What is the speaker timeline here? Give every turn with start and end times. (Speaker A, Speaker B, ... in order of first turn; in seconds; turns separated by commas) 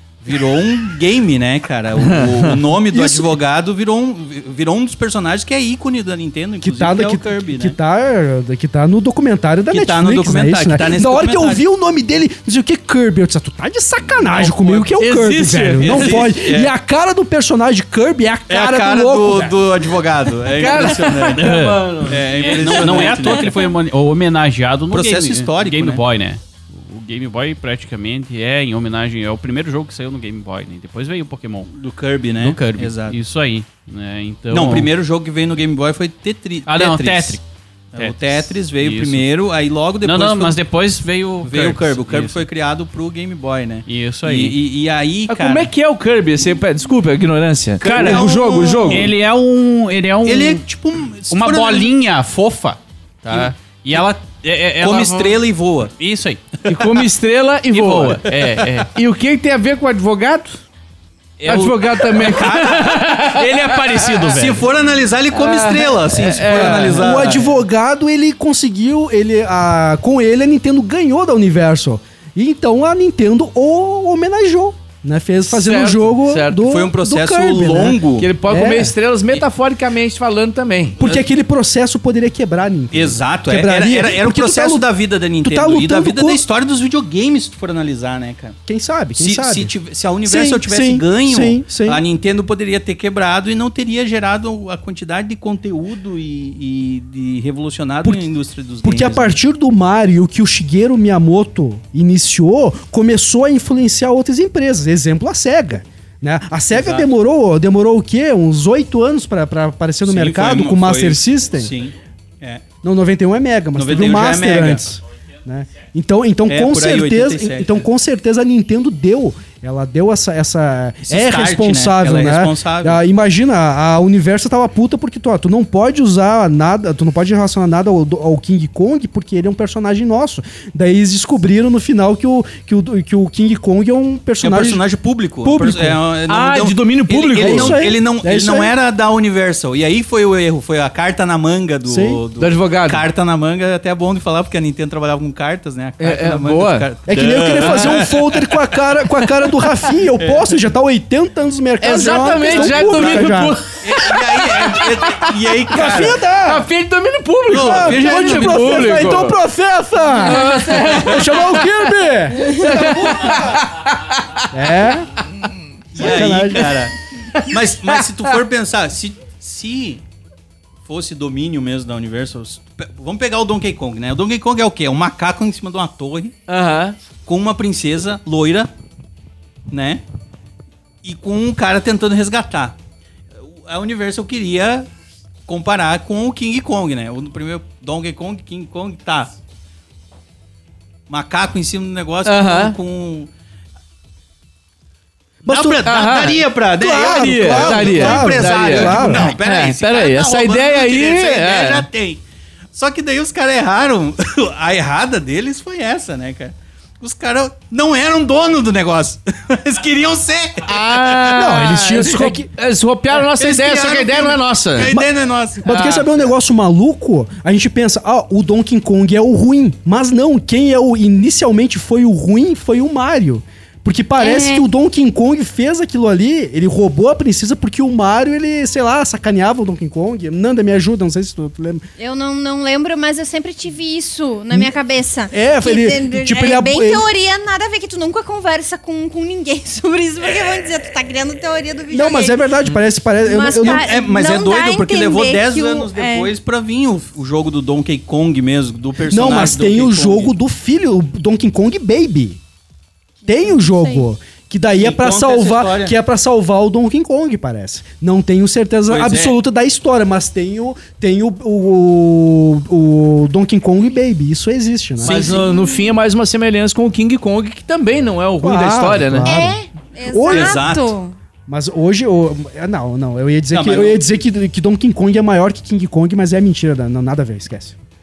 Speaker A: 0.2-7.8, Speaker B: 2.0-2.6, Speaker C: 2.9-3.2, Speaker C: 6.6-19.6, Speaker A: 9.7-11.6, Speaker A: 14.1-14.9, Speaker B: 14.9-16.3, Speaker A: 15.8-16.7, Speaker A: 18.5-23.7, Speaker B: 20.5-23.3, Speaker D: 21.4-31.7, Speaker A: 24.9-26.0, Speaker A: 31.7-33.2, Speaker D: 32.4-34.9, Speaker A: 34.5-37.4, Speaker D: 36.6-37.4, Speaker A: 37.9-40.6, Speaker D: 37.9-39.2, Speaker D: 40.0-42.4, Speaker A: 41.4-45.7, Speaker D: 43.9-44.6, Speaker B: 45.3-49.1, Speaker A: 47.8-49.1, Speaker D: 47.9-48.2, Speaker D: 48.9-50.6, Speaker A: 50.2-51.9, Speaker D: 51.3-55.4, Speaker A: 53.3-54.0, Speaker A: 54.8-55.9, Speaker D: 56.0-56.6, Speaker B: 56.6-60.6, Speaker D: 57.7-58.9, Speaker D: 61.4-62.4, Speaker B: 61.5-64.2, Speaker A: 62.2-63.0, Speaker D: 63.1-64.7, Speaker A: 64.3-67.4, Speaker B: 65.3-67.3, Speaker C: 66.5-78.9, Speaker B: 75.5-76.6, Speaker A: 76.6-78.3, Speaker B: 78.2-81.1, Speaker C: 81.0-84.9, Speaker A: 82.9-88.5, Speaker C: 85.4-86.4, Speaker C: 88.7-89.7, Speaker A: 89.2-99.3, Speaker C: 90.2-92.0, Speaker C: 98.8-111.7, Speaker A: 106.7-107.1, Speaker A: 110.0-112.6, Speaker C: 112.8-134.8, Speaker A: 113.8-114.8, Speaker A: 116.5-117.8, Speaker A: 121.1-123.0, Speaker A: 134.4-148.5, Speaker C: 135.4-136.0, Speaker B: 136.3-137.8, Speaker C: 137.4-138.7, Speaker C: 141.8-142.2, Speaker B: 142.4-143.0, Speaker B: 146.0-146.9, Speaker C: 147.1-153.6, Speaker B: 147.6-148.1, Speaker A: 150.2-150.5, Speaker B: 151.8-155.3, Speaker A: 152.4-156.2, Speaker C: 155.7-156.7, Speaker B: 156.4-159.4, Speaker A: 157.5-159.2, Speaker C: 157.5-163.6, Speaker B: 160.1-161.6, Speaker A: 160.8-161.2, Speaker B: 162.4-164.5, Speaker C: 164.5-165.1, Speaker A: 165.9-170.0, Speaker C: 166.0-166.8, Speaker A: 170.8-176.3, Speaker B: 176.5-177.0, Speaker A: 177.2-178.7, Speaker A: 179.7-180.0, Speaker A: 181.0-182.8, Speaker A: 183.4-184.9, Speaker A: 185.5-189.3, Speaker A: 191.1-193.3, Speaker B: 192.2-192.8, Speaker C: 195.4-195.9, Speaker A: 195.4-211.6, Speaker B: 195.8-196.4, Speaker C: 196.8-199.3, Speaker B: 197.0-201.9, Speaker B: 210.7-215.0, Speaker C: 211.3-212.5, Speaker A: 213.1-215.7, Speaker C: 215.6-231.8, Speaker B: 215.7-216.1, Speaker E: 224.2-224.7, Speaker E: 232.0-242.4, Speaker C: 235.3-237.1, Speaker C: 241.9-243.9, Speaker E: 243.2-246.3, Speaker A: 243.6-250.3, Speaker C: 249.1-252.4, Speaker E: 253.2-254.1, Speaker C: 253.3-265.3, Speaker A: 254.7-255.9, Speaker A: 258.9-259.4, Speaker A: 265.0-265.5, Speaker B: 265.0-269.4, Speaker E: 265.4-265.9, Speaker C: 268.4-269.6, Speaker E: 269.2-271.1, Speaker C: 270.1-270.7, Speaker A: 270.3-270.9, Speaker C: 271.5-277.8, Speaker A: 273.5-274.0